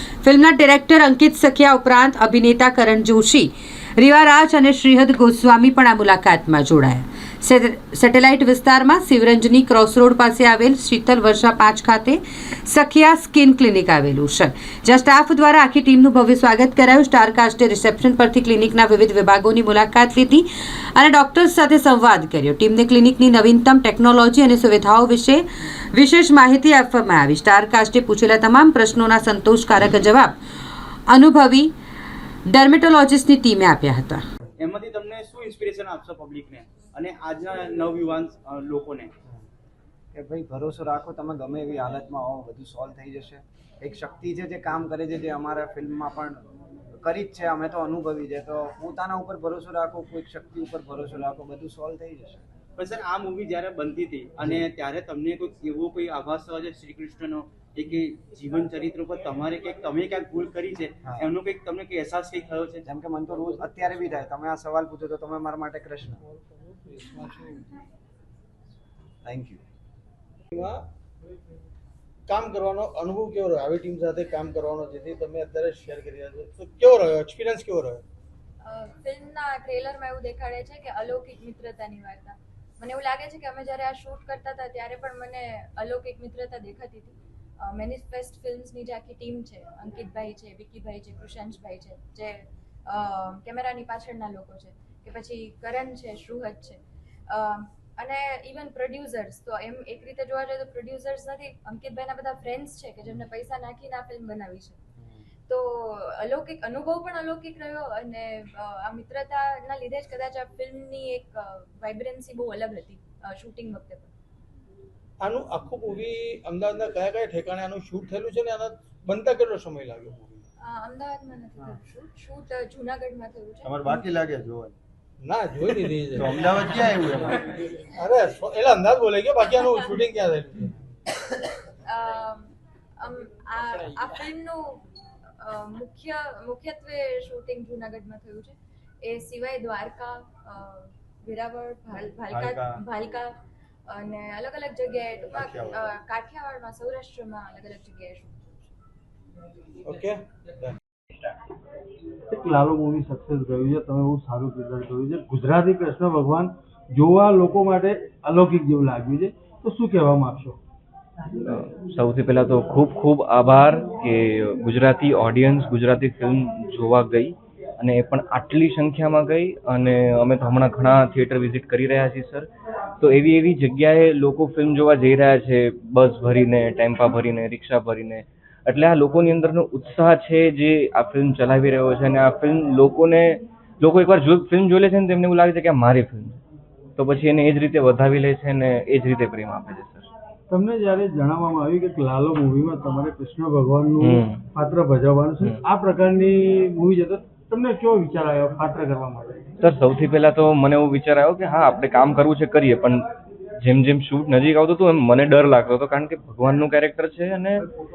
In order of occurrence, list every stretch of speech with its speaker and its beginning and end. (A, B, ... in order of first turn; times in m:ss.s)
0:00.2-0:03.5 A
0:04.0-0:20.4 A
0:21.0-0:25.4 A
0:26.0-0:30.4 A
0:31.1-0:31.7 A
0:32.5-0:34.2 A
0:34.6-0:37.8 B
0:38.3-0:39.0 B
0:40.1-0:46.4 C
0:47.0-0:52.5 C
0:52.8-1:02.8 B
1:01.0-1:01.3 C
1:02.8-1:06.2 C
1:06.8-1:07.7 D
1:09.2-1:09.6 C
1:10.5-1:10.8 D
1:12.3-1:18.0 D
1:18.6-1:44.8 E
1:45.0-1:45.3 C
1:45.5-1:54.1 E
1:55.2-2:00.4 D
2:00.6-2:04.0 E
2:03.6-2:04.8 F
2:05.2-2:06.3 D
2:06.2-2:07.6 F
2:07.9-2:10.8 D
2:11.7-2:14.8 E
2:15.4-2:23.3 E
2:22.3-2:22.8 F
2:23.9-2:28.7 E
2:25.3-2:25.8 F
2:29.8-2:30.8 D
2:32.3-2:40.6 G
2:41.4-2:52.5 H
2:53.0-3:06.4 H
3:07.0-3:10.1 H
3:10.5-3:17.4 G
3:12.0-3:13.8 D
3:14.0-3:14.4 H
3:14.6-3:16.3 D
3:16.8-3:19.2 D
3:18.8-3:19.4 G
3:19.6-3:23.0 H
3:23.6-3:27.6 H